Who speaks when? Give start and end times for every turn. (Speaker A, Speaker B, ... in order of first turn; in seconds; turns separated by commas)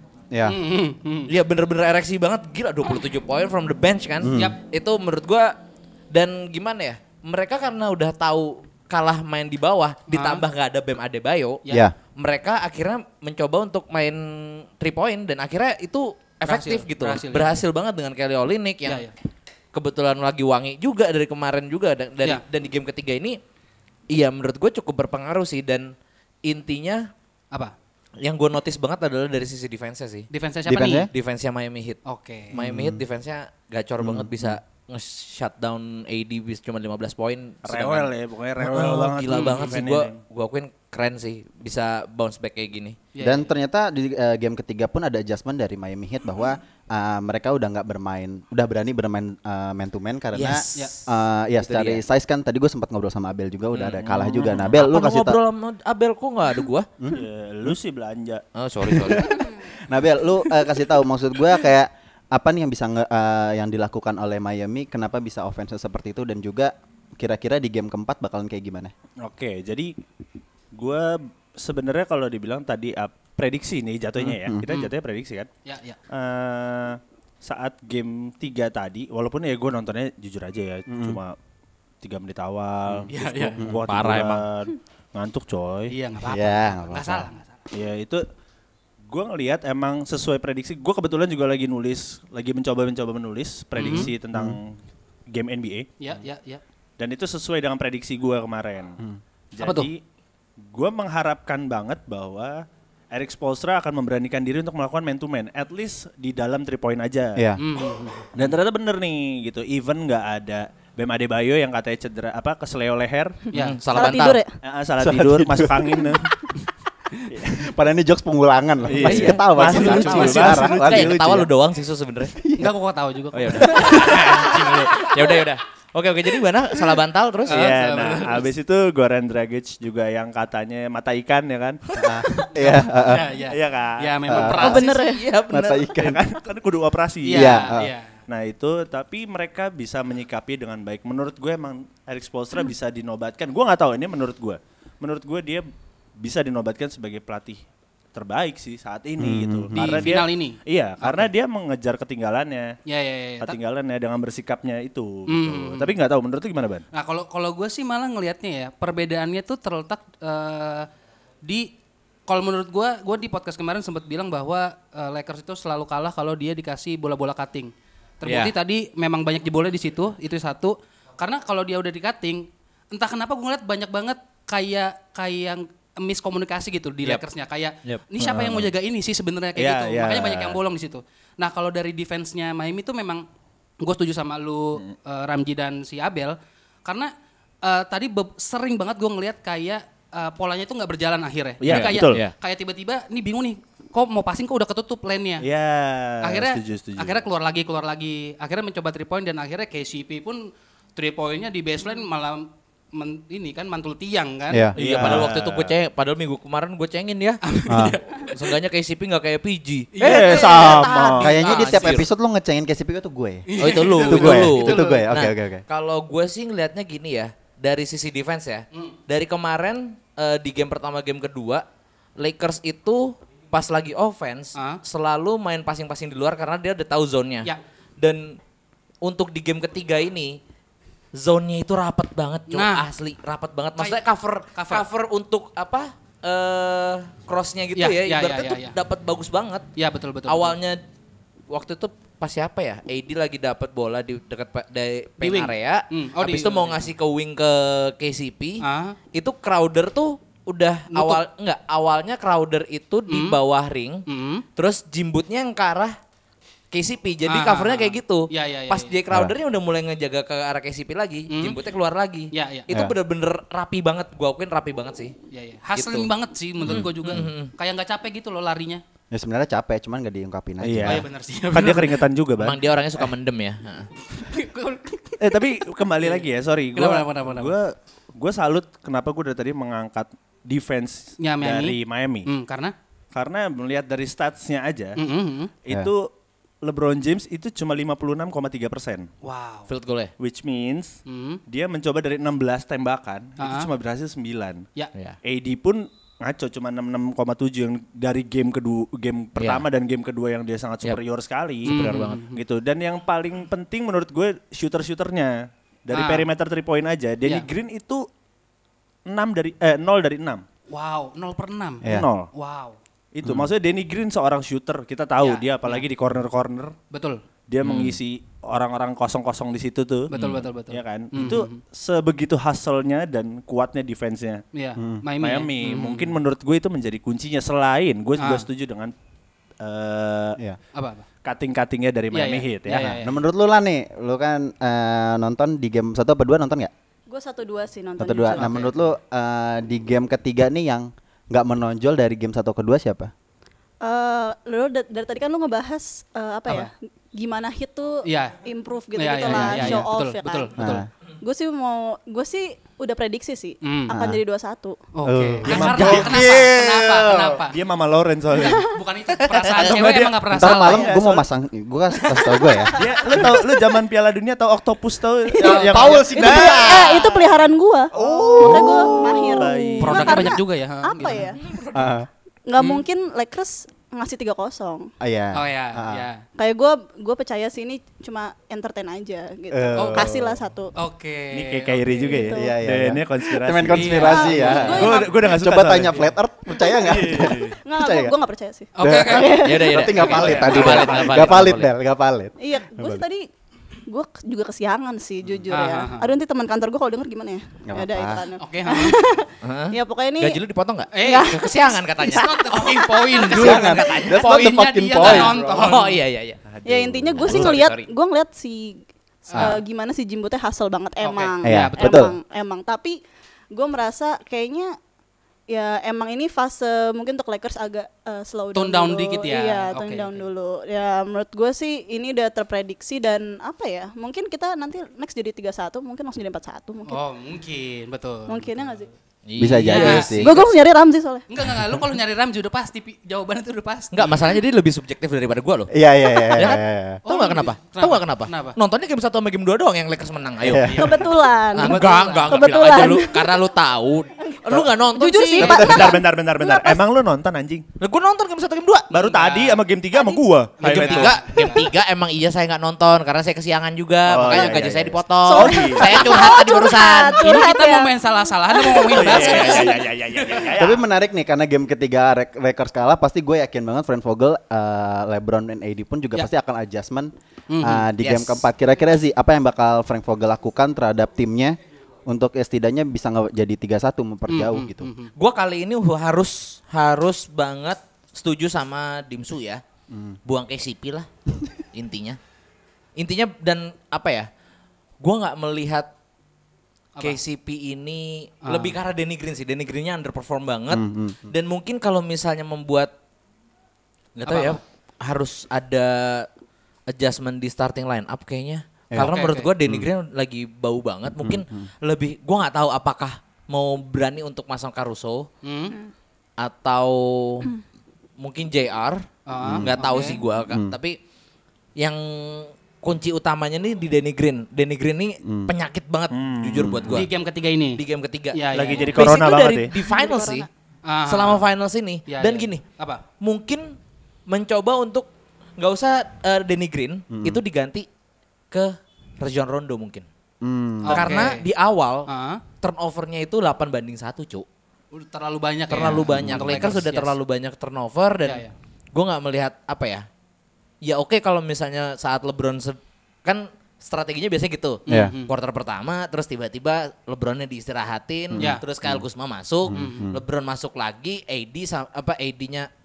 Speaker A: 0.3-0.6, Speaker B: 0.5-1.3, Speaker C: 1.3-5.5, Speaker A: 4.2-4.6, Speaker B: 4.3-4.6, Speaker C: 6.1-11.6, Speaker B: 10.1-10.4, Speaker C: 12.2-19.0, Speaker B: 16.4-17.6, Speaker B: 18.9-19.1, Speaker C: 19.7-23.4, Speaker C: 24.1-25.9, Speaker C: 26.4-27.1, Speaker C: 28.2-30.3, Speaker B: 30.3-31.1, Speaker A: 30.7-31.1, Speaker C: 31.1-32.0, Speaker B: 32.0-32.5, Speaker A: 32.5-33.0, Speaker C: 32.5-43.0, Speaker A: 34.0-34.6, Speaker D: 37.6-40.2, Speaker B: 39.3-39.8, Speaker B: 43.1-43.5, Speaker A: 43.2-55.4, Speaker C: 50.3-51.0, Speaker C: 51.6-52.0, Speaker C: 53.7-56.9, Speaker D: 54.3-54.6, Speaker A: 57.0-57.8, Speaker D: 57.1-58.4, Speaker C: 58.5-59.4, Speaker A: 59.0-68.9, Speaker D: 69.2-69.9, Speaker D: 70.7-75.5, Speaker A: 74.2-74.6, Speaker B: 75.6-76.0, Speaker D: 76.1-81.3, Speaker A: 80.9-81.2, Speaker D: 82.0-85.9, Speaker B: 83.1-83.6, Speaker C: 83.8-84.4, Speaker B: 85.9-87.6, Speaker A: 86.2-87.3, Speaker D: 87.7-88.2, Speaker D: 89.1-94.8, Speaker B: 93.8-94.1, Speaker A: 93.9-94.6, Speaker D: 95.3-95.9, Speaker B: 96.0-96.6, Speaker D: 97.0-99.0, Speaker D: 99.5-100.0, Speaker B: 99.6-99.9, Speaker D: 100.7-107.4, Speaker A: 107.3-107.6, Speaker B: 107.6-108.3, Speaker D: 108.3-113.4, Speaker B: 113.5-114.1, Speaker C: 113.5-114.4, Speaker E: 113.9-114.5, Speaker D: 114.6-116.3, Speaker A: 115.0-116.2, Speaker D: 117.3-117.7, Speaker A: 117.5-121.5, Speaker D: 118.9-121.2, Speaker C: 118.9-122.3, Speaker B: 119.7-120.7, Speaker A: 122.4-122.7, Speaker B: 122.6-124.1, Speaker C: 123.3-127.8, Speaker D: 123.6-125.0, Speaker D: 127.5-131.8, Speaker B: 127.5-128.5, Speaker A: 132.0-133.3, Speaker B: 132.6-134.9, Speaker D: 133.4-134.3, Speaker A: 134.3-134.9, Speaker C: 134.6-135.9, Speaker E: 134.6-135.2, Speaker A: 135.4-136.2, Speaker D: 136.0-145.7, Speaker B: 137.2-138.2, Speaker A: 137.3-137.9, Speaker D: 146.2-147.6, Speaker D: 148.1-152.7, Speaker A: 149.2-150.1, Speaker B: 149.7-151.3, Speaker B: 152.9-153.6, Speaker D: 153.4-156.8, Speaker B: 155.3-155.9, Speaker B: 156.9-160.9, Speaker B: 161.4-161.7, Speaker B: 162.3-183.2, Speaker C: 168.2-168.5, Speaker D: 178.2-178.7, Speaker D: 179.6-180.6, Speaker B: 183.8-187.1, Speaker B: 187.6-195.4, Speaker D: 191.6-192.2, Speaker C: 191.7-192.3, Speaker D: 195.4-197.2, Speaker B: 196.2-205.3, Speaker D: 204.8-205.7, Speaker C: 204.8-207.4, Speaker B: 207.4-208.5, Speaker A: 207.7-208.0, Speaker C: 208.2-212.1, Speaker B: 209.9-212.0, Speaker D: 210.0-211.3, Speaker A: 211.2-215.6, Speaker B: 213.5-215.1, Speaker C: 213.6-221.6, Speaker C: 222.2-228.4, Speaker B: 224.6-224.8, Speaker C: 229.0-230.4, Speaker C: 231.1-239.6, Speaker B: 232.5-232.8, Speaker B: 233.8-234.8, Speaker B: 237.8-238.8, Speaker B: 239.8-240.6, Speaker C: 240.3-240.8, Speaker C: 241.5-254.0, Speaker B: 245.2-246.8, Speaker B: 248.6-249.0, Speaker B: 250.9-251.2, Speaker B: 253.1-253.4, Speaker B: 254.1-254.4, Speaker C: 254.6-255.9, Speaker C: 256.7-265.1, Speaker B: 257.3-258.9, Speaker B: 261.3-261.6, Speaker B: 262.3-262.7, Speaker B: 265.3-268.8, Speaker C: 265.7-266.1, Speaker A: 266.6-267.2, Speaker C: 266.7-267.5, Speaker A: 269.1-271.0, Speaker D: 270.6-272.6, Speaker B: 270.8-272.1, Speaker C: 272.4-273.9, Speaker B: 274.1-275.5, Speaker D: 275.2-282.3, Speaker B: 276.0-277.5, Speaker B: 281.2-282.7, Speaker D: 283.1-285.0, Speaker B: 285.0-285.5, Speaker D: 285.6-286.1, Speaker D: 286.6-289.1, Speaker B: 289.2-289.7, Speaker C: 289.7-290.1, Speaker D: 290.2-294.6, Speaker B: 291.1-291.4, Speaker B: 293.4-293.7, Speaker D: 295.2-308.1, Speaker C: 299.4-299.6, Speaker C: 301.6-302.2, Speaker B: 301.6-302.4, Speaker B: 305.9-306.3, Speaker D: 309.1-310.4, Speaker B: 310.7-312.8, Speaker D: 311.9-312.3, Speaker D: 313.1-316.7, Speaker B: 315.2-315.9, Speaker B: 316.9-317.2, Speaker D: 317.5-324.4, Speaker C: 317.6-318.0, Speaker B: 320.1-321.6, Speaker C: 320.1-320.4, Speaker B: 324.5-326.1, Speaker A: 324.8-325.0, Speaker D: 325.2-328.9, Speaker B: 328.2-328.4, Speaker D: 329.6-330.4, Speaker B: 330.7-331.1, Speaker D: 331.2-332.9, Speaker B: 332.1-333.2, Speaker A: 332.7-336.7, Speaker E: 337.1-338.6, Speaker A: 338.0-343.1, Speaker B: 338.3-338.7, Speaker E: 343.8-354.8, Speaker B: 348.0-348.4, Speaker B: 348.9-350.8, Speaker A: 349.3-349.9, Speaker A: 350.6-350.9, Speaker B: 353.6-353.9, Speaker A: 353.9-354.2, Speaker B: 354.9-357.6, Speaker D: 355.1-356.5, Speaker A: 355.1-357.4, Speaker D: 357.4-358.7, Speaker B: 358.4-361.1, Speaker D: 359.3-361.2, Speaker A: 360.3-363.3, Speaker B: 362.1-362.4, Speaker D: 362.7-366.9, Speaker A: 365.4-367.1, Speaker B: 365.4-366.1, Speaker E: 365.4-371.4, Speaker A: 367.9-369.4, Speaker D: 368.0-370.3, Speaker B: 369.8-371.5, Speaker A: 371.7-372.1, Speaker E: 372.5-374.9, Speaker A: 375.0-376.1, Speaker B: 375.3-376.2, Speaker E: 376.4-380.7, Speaker A: 379.5-380.4, Speaker B: 379.7-380.1, Speaker B: 380.8-382.2, Speaker D: 381.3-386.1, Speaker E: 382.1-382.5, Speaker A: 382.3-388.1, Speaker B: 383.6-384.9, Speaker E: 383.9-385.2, Speaker E: 386.6-389.8, Speaker D: 386.7-387.6, Speaker B: 388.7-391.3, Speaker A: 388.8-393.0, Speaker C: 389.3-391.7, Speaker E: 392.4-393.3, Speaker E: 393.9-400.4, Speaker B: 395.5-396.1, Speaker A: 397.6-398.3, Speaker B: 398.4-399.1, Speaker C: 399.4-404.1, Speaker B: 400.9-401.4, Speaker E: 401.0-403.5, Speaker B: 402.1-406.0, Speaker A: 403.2-405.6, Speaker C: 405.0-406.4, Speaker D: 406.5-407.5, Speaker E: 406.6-413.0, Speaker A: 407.2-407.5, Speaker C: 407.2-407.9, Speaker B: 409.3-409.6, Speaker B: 411.0-412.1, Speaker A: 411.4-412.1, Speaker E: 413.5-414.8, Speaker E: 415.5-427.0, Speaker B: 418.5-420.3, Speaker B: 426.9-428.6, Speaker E: 428.3-428.9, Speaker C: 429.3-430.4, Speaker A: 429.4-430.4, Speaker B: 429.6-430.3, Speaker E: 429.9-431.2, Speaker B: 431.3-434.2, Speaker C: 433.9-435.7, Speaker A: 435.7-437.0, Speaker C: 436.3-440.9, Speaker B: 437.0-438.6, Speaker A: 440.4-441.0, Speaker E: 440.7-443.3, Speaker B: 440.7-442.8, Speaker C: 441.5-445.8, Speaker E: 444.9-446.8, Speaker D: 445.4-447.6, Speaker A: 445.4-445.9, Speaker C: 447.8-449.1, Speaker D: 448.9-451.2, Speaker B: 449.0-449.6, Speaker B: 450.6-451.6, Speaker C: 450.6-457.4, Speaker D: 454.1-456.4, Speaker E: 455.3-459.8, Speaker B: 457.2-460.5, Speaker D: 458.9-460.8, Speaker A: 460.6-474.9, Speaker B: 467.5-467.9, Speaker C: 468.0-468.4, Speaker B: 474.3-475.1, Speaker C: 475.1-479.6, Speaker A: 479.9-480.2, Speaker C: 480.2-481.1, Speaker C: 481.7-482.2, Speaker C: 483.0-484.3, Speaker C: 485.0-485.9, Speaker C: 487.0-492.9, Speaker B: 488.4-488.7, Speaker A: 490.7-491.3, Speaker C: 494.2-496.3, Speaker B: 494.3-494.6, Speaker C: 496.9-505.3, Speaker B: 499.0-499.5, Speaker A: 501.2-501.7, Speaker B: 505.4-505.8, Speaker C: 506.4-507.5, Speaker C: 508.2-511.0, Speaker B: 509.3-510.2, Speaker A: 509.4-509.7, Speaker A: 510.5-510.7, Speaker C: 511.8-517.1, Speaker A: 515.2-515.5, Speaker D: 516.1-516.7, Speaker A: 516.6-517.0, Speaker B: 516.9-517.8, Speaker C: 517.8-520.5, Speaker B: 518.3-519.0, Speaker D: 518.5-519.7, Speaker E: 519.8-520.5, Speaker B: 520.9-521.4, Speaker C: 521.0-522.6, Speaker B: 522.1-523.0, Speaker C: 523.2-523.7, Speaker C: 524.3-525.1, Speaker C: 525.6-527.9, Speaker A: 527.1-527.4, Speaker C: 528.5-530.0, Speaker A: 530.4-531.1, Speaker B: 530.8-531.4, Speaker C: 530.9-532.1, Speaker B: 532.1-532.4, Speaker C: 532.6-534.5, Speaker B: 534.9-537.1, Speaker C: 535.7-538.4, Speaker A: 535.8-536.7, Speaker B: 538.2-538.5, Speaker C: 538.9-540.0, Speaker C: 540.8-552.7, Speaker B: 544.9-545.3, Speaker A: 544.9-545.1, Speaker A: 548.3-549.0, Speaker B: 548.4-548.6, Speaker A: 549.6-550.2, Speaker B: 549.7-550.1